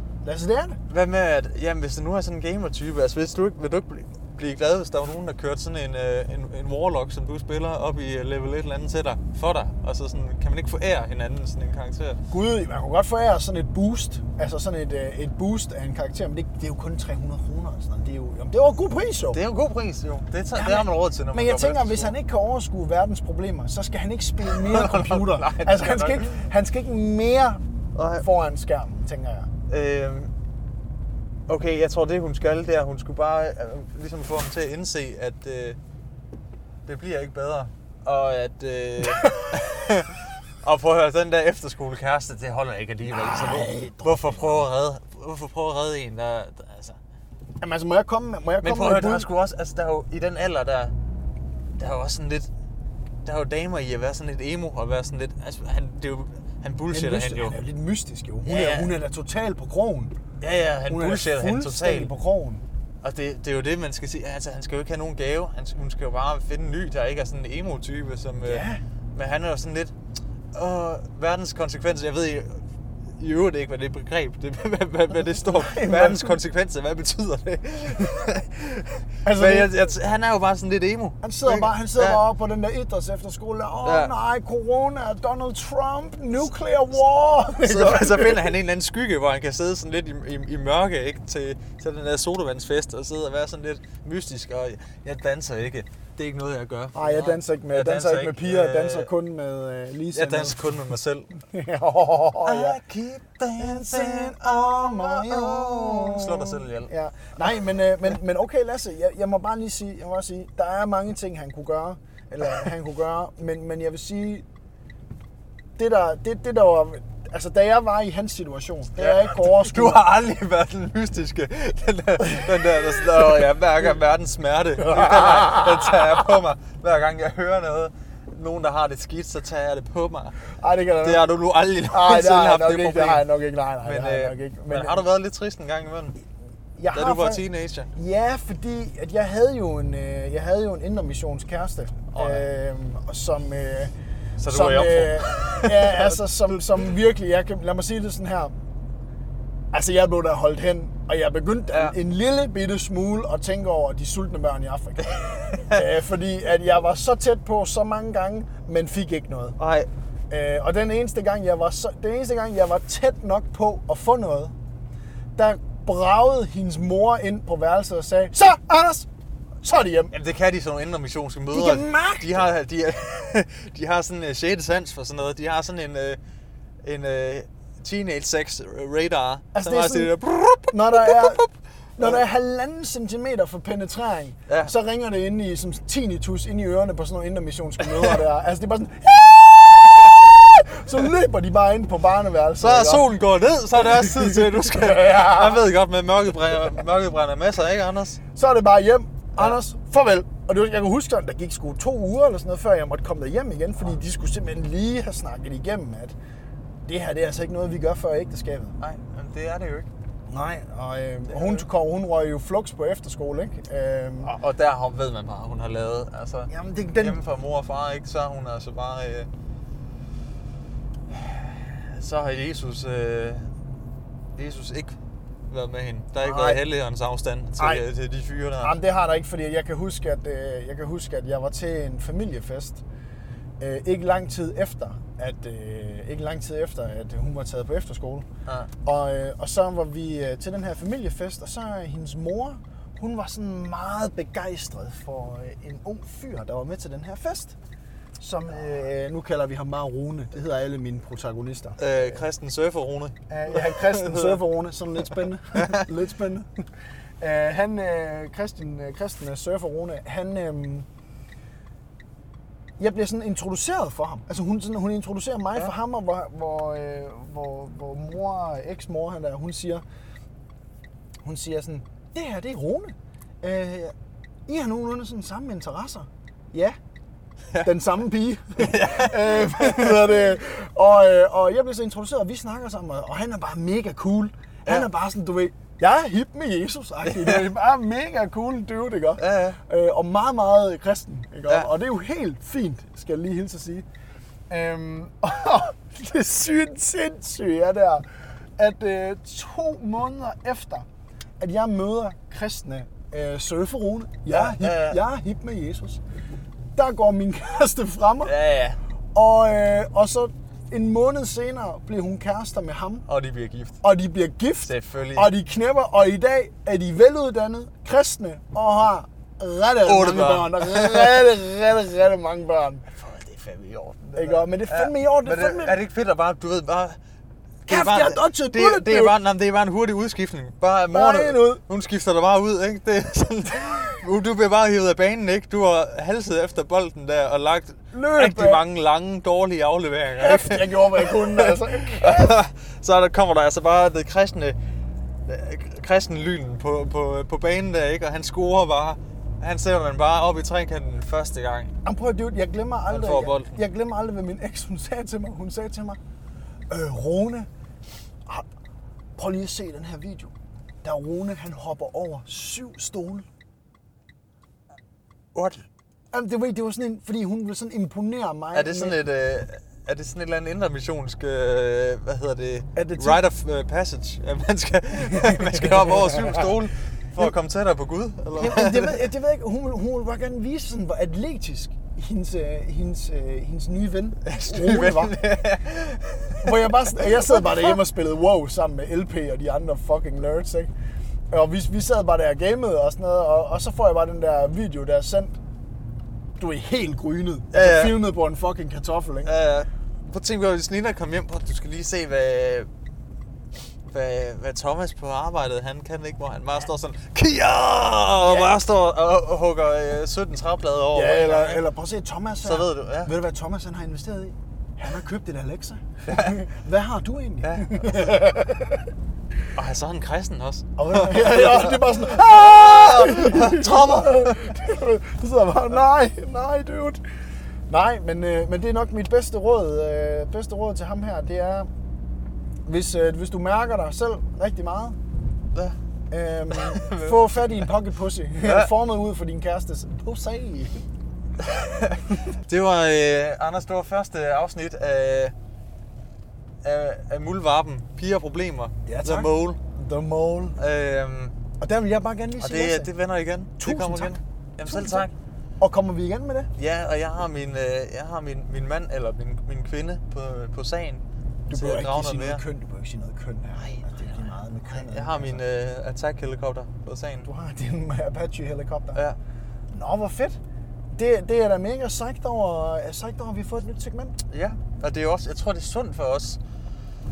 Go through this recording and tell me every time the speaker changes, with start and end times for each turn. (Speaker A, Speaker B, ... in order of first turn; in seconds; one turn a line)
Speaker A: 0.2-0.8
Speaker B: 0.9-12.2
Speaker A: 12.3-19.4
Speaker B: 19.3-22.1
Speaker A: 20.5-27.6
Speaker B: 24.4-26.4
Speaker B: 27.9-28.2
Speaker A: 28.2-29.5
Speaker B: 29.7-30.3
Speaker B: 31.5-35.8
Speaker B: 36.9-47.0
Speaker A: 39.2-39.5
Speaker A: 43.1-44.6
Speaker A: 47.6-49.3
Speaker B: 48.6-50.9
Speaker B: 51.7-52.5
Speaker B: 53.2-57.6
Speaker A: 56.9-60.1
Speaker B: 58.4-58.9
Speaker B: 60.4-62.1
Speaker A: 60.9-62.6
Speaker B: 63.0-69.9
Speaker A: 68.4-68.8
Speaker B: 70.5-72.6
Speaker B: 73.2-82.2
Speaker A: 75.4-76.4
Speaker A: 79.2-79.7
Speaker A: 81.2-88.5
Speaker B: 83.8-84.1
Speaker B: 87.6-99.1
Speaker A: 96.9-100.7
Speaker B: 100.1-101.3
Speaker A: 101.5-102.8
Speaker B: 102.4-106.9
Speaker A: 103.6-114.4
Speaker A: 115.8-120.0
Speaker B: 119.0-130.4
Speaker A: 124.8-126.0
Speaker A: 130.5-131.2
Speaker B: 131.0-133.3
Speaker A: 131.9-135.0
Speaker B: 133.8-136.2
Speaker A: 136.8-143.9
Speaker B: 136.9-137.9
Speaker B: 142.1-142.5
Speaker B: 144.4-146.2
Speaker A: 144.4-148.5
Speaker A: 149.7-159.6
Speaker B: 155.1-155.8
Speaker B: 159.6-159.9
Speaker A: 160.3-164.5
Speaker A: 165.3-169.1
Speaker A: 169.6-170.1
Speaker B: 170.1-176.2
Speaker A: 171.5-172.4
Speaker B: 176.8-182.2
Speaker A: 179.5-180.1
Speaker A: 180.7-181.4
Speaker A: 182.0-193.1
Speaker B: 184.5-184.7
Speaker B: 192.6-198.2
Speaker A: 193.8-195.6
Speaker A: 198.3-206.1
Speaker A: 206.8-208.8
Speaker B: 208.8-209.9
Speaker A: 210.3-214.3
Speaker B: 211.3-211.7
Speaker B: 214.2-219.3
Speaker A: 216.5-217.2
Speaker B: 221.1-223.5
Speaker B: 224.3-225.0
Speaker B: 225.5-228.8
Speaker A: 226.2-226.6
Speaker A: 227.6-227.8
Speaker A: 228.6-232.8
Speaker A: 233.6-238.2
Speaker A: 238.8-247.5
Speaker A: 248.2-252.2
Speaker B: 251.8-254.4
Speaker A: 253.3-256.6
Speaker B: 255.5-255.9
Speaker A: 257.2-260.9
Speaker A: 262.8-269.8
Speaker A: 271.2-273.9
Speaker A: 274.5-276.8
Speaker A: 277.6-293.8
Speaker B: 278.6-280.1
Speaker B: 287.0-287.5
Speaker B: 289.2-289.6
Speaker A: 294.5-298.1
Speaker A: 298.6-300.9
Speaker A: 301.4-306.0
Speaker B: 304.3-305.0
Speaker A: 306.8-308.3
Speaker B: 308.2-308.8
Speaker A: 309.1-313.1
Speaker B: 313.1-313.8
Speaker A: 313.8-322.8
Speaker B: 314.6-315.3
Speaker B: 319.8-321.3
Speaker B: 322.9-327.0
Speaker A: 324.1-325.8
Speaker B: 327.6-344.6
Speaker A: 327.7-329.1
Speaker A: 330.9-331.6
Speaker A: 337.9-338.6
Speaker A: 340.2-342.3
Speaker B: 345.2-351.7
Speaker A: 351.8-356.0
Speaker B: 352.9-353.6
Speaker A: 356.7-357.5
Speaker A: 359.2-363.2
Speaker B: 365.3-365.6
Speaker A: 366.1-369.0
Speaker B: 368.5-379.0
Speaker A: 372.7-373.2
Speaker A: 375.2-376.5
Speaker A: 378.3-385.1
Speaker B: 384.2-387.8
Speaker A: 386.4-390.7
Speaker A: 391.3-395.4
Speaker A: 396.4-399.3
Speaker B: 397.5-398.0
Speaker B: 399.2-402.7
Speaker B: 403.9-411.6
Speaker A: 408.2-408.5
Speaker A: 410.9-418.8
Speaker B: 412.4-413.1
Speaker B: 416.1-416.4
Speaker B: 417.4-418.0
Speaker B: 419.6-424.4
Speaker A: 420.8-427.0
Speaker A: 427.7-431.7
Speaker A: 432.7-435.0
Speaker A: 436.1-440.8
Speaker B: 436.5-437.7
Speaker B: 438.4-438.7
Speaker B: 441.4-445.3
Speaker B: 446.6-449.6
Speaker A: 448.9-450.6
Speaker B: 450.6-451.4
Speaker A: 451.6-452.9
Speaker B: 452.4-455.1
Speaker A: 453.6-455.1
Speaker A: 455.6-456.5
Speaker B: 456.6-462.4
Speaker A: 461.5-465.4
Speaker B: 463.6-467.3
Speaker A: 467.2-469.0
Speaker A: 469.7-470.4
Speaker A: 470.9-474.2
Speaker B: 474.3-476.4